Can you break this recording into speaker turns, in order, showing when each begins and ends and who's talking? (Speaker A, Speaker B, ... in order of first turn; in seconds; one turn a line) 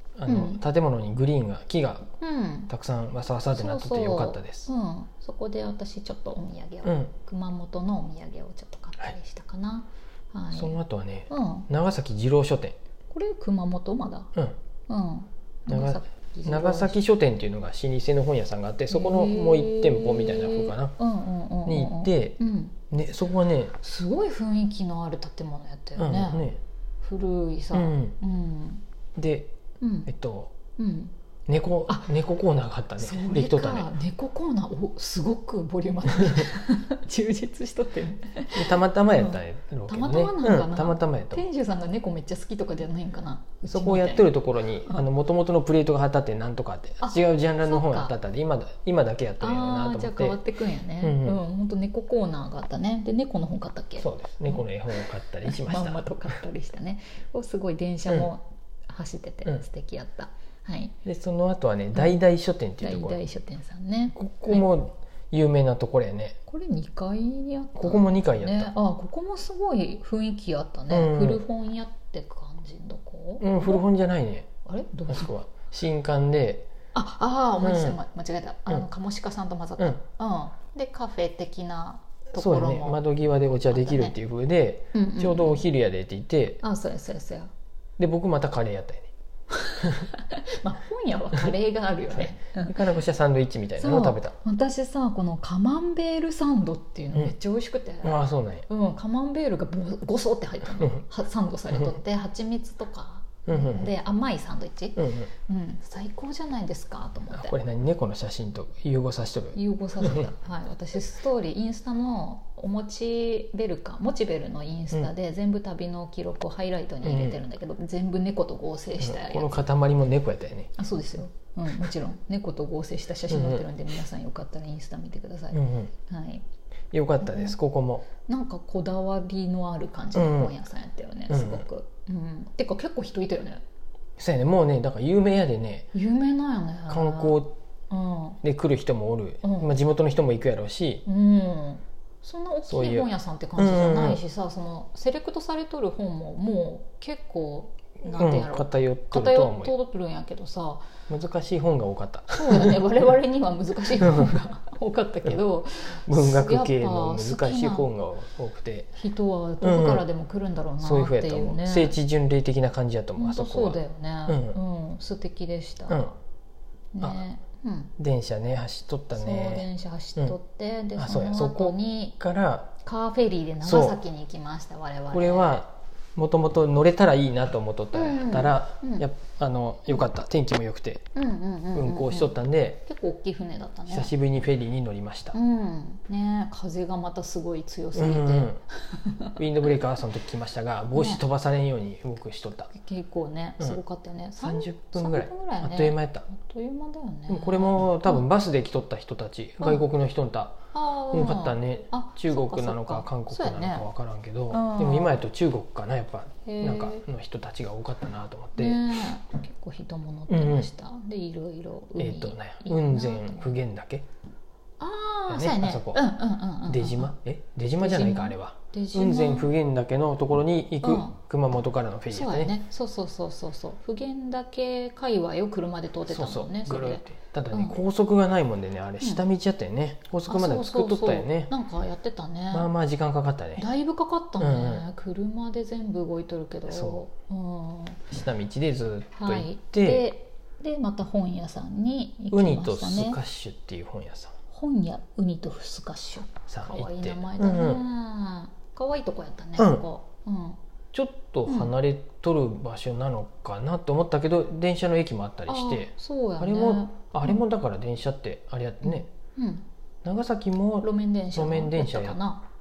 Speaker A: 0.2-2.1
Speaker B: 0.3-0.6
Speaker B: 2.2-2.7
Speaker A: 2.7-4.7
Speaker B: 3.5-10.8
Speaker A: 6.8-7.1
Speaker A: 10.5-12.8
Speaker B: 11.3-11.7
Speaker B: 13.1-14.3
Speaker B: 14.9-17.0
Speaker A: 15.7-20.9
Speaker B: 18.9-22.8
Speaker A: 21.7-22.4
Speaker A: 22.9-23.8
Speaker B: 23.8-26.5
Speaker A: 26.0-26.6
Speaker B: 27.0-28.8
Speaker A: 27.7-28.2
Speaker A: 29.2-29.6
Speaker B: 29.8-30.1
Speaker A: 30.1-30.5
Speaker B: 30.8-31.1
Speaker A: 31.5-33.9
Speaker B: 31.9-32.1
Speaker B: 33.0-45.0
Speaker A: 38.5-41.5
Speaker A: 43.7-50.4
Speaker B: 47.0-48.1
Speaker B: 49.4-61.0
Speaker A: 51.0-51.4
Speaker A: 54.0-56.4
Speaker A: 61.1-63.2
Speaker B: 62.8-64.7
Speaker A: 64.2-66.4
Speaker B: 66.5-73.9
Speaker A: 67.8-68.7
Speaker A: 70.9-71.4
Speaker A: 73.4-74.5
Speaker B: 74.7-75.3
Speaker A: 75.1-76.7
Speaker B: 76.9-83.0
Speaker A: 77.6-78.0
Speaker A: 82.3-86.6
Speaker B: 83.7-84.2
Speaker B: 84.9-85.6
Speaker B: 86.6-87.5
Speaker A: 88.0-89.1
Speaker B: 89.5-92.8
Speaker A: 92.1-94.3
Speaker B: 93.8-107.5
Speaker A: 98.0-98.7
Speaker A: 103.5-103.9
Speaker A: 105.0-105.3
Speaker A: 107.3-110.3
Speaker B: 109.5-119.7
Speaker A: 117.0-117.4
Speaker A: 119.0-120.7
Speaker B: 120.8-126.4
Speaker A: 123.3-123.7
Speaker A: 125.5-125.9
Speaker A: 126.9-128.1
Speaker B: 127.2-127.5
Speaker B: 128.2-133.6
Speaker A: 130.1-130.6
Speaker A: 131.3-131.7
Speaker A: 134.2-135.9
Speaker B: 135.9-138.4
Speaker A: 136.9-137.6
Speaker A: 138.4-141.0
Speaker B: 139.4-139.8
Speaker B: 141.1-150.9
Speaker A: 142.7-144.2
Speaker A: 148.0-149.7
Speaker A: 151.1-152.8
Speaker B: 152.3-157.9
Speaker A: 154.0-154.4
Speaker A: 156.1-158.9
Speaker B: 159.0-162.0
Speaker A: 159.6-160.1
Speaker A: 160.8-164.6
Speaker B: 163.2-166.1
Speaker B: 166.9-167.9
Speaker A: 168.0-170.4
Speaker B: 169.1-172.2
Speaker A: 171.0-172.8
Speaker B: 172.8-175.6
Speaker A: 173.6-174.0
Speaker A: 175.1-181.1
Speaker B: 177.9-179.1
Speaker B: 181.2-184.1
Speaker A: 181.7-182.8
Speaker A: 183.9-185.4
Speaker B: 185.3-189.4
Speaker A: 187.9-188.6
Speaker A: 189.4-192.7
Speaker B: 190.9-191.2
Speaker B: 192.7-198.2
Speaker A: 194.4-196.3
Speaker A: 197.3-200.6
Speaker B: 199.6-199.9
Speaker B: 200.7-203.9
Speaker A: 201.1-208.8
Speaker B: 204.5-205.3
Speaker B: 206.4-207.1
Speaker B: 208.6-213.6
Speaker A: 210.3-210.7
Speaker A: 212.0-214.1
Speaker B: 214.8-217.2
Speaker A: 215.3-216.0
Speaker A: 216.7-222.5
Speaker B: 217.8-219.5
Speaker B: 220.8-221.2
Speaker B: 222.1-227.8
Speaker A: 226.1-231.5
Speaker B: 230.3-232.7
Speaker A: 232.5-233.7
Speaker B: 233.6-238.1
Speaker A: 234.4-234.8
Speaker A: 236.7-237.0
Speaker A: 238.1-240.1
Speaker B: 239.2-243.2
Speaker A: 242.3-244.3
Speaker B: 244.5-250.6
Speaker A: 246.5-247.8
Speaker A: 249.6-249.8
Speaker A: 250.9-259.1
Speaker B: 251.5-251.7
Speaker B: 255.5-257.4
Speaker B: 258.9-259.6
Speaker A: 260.0-262.2
Speaker B: 260.8-262.4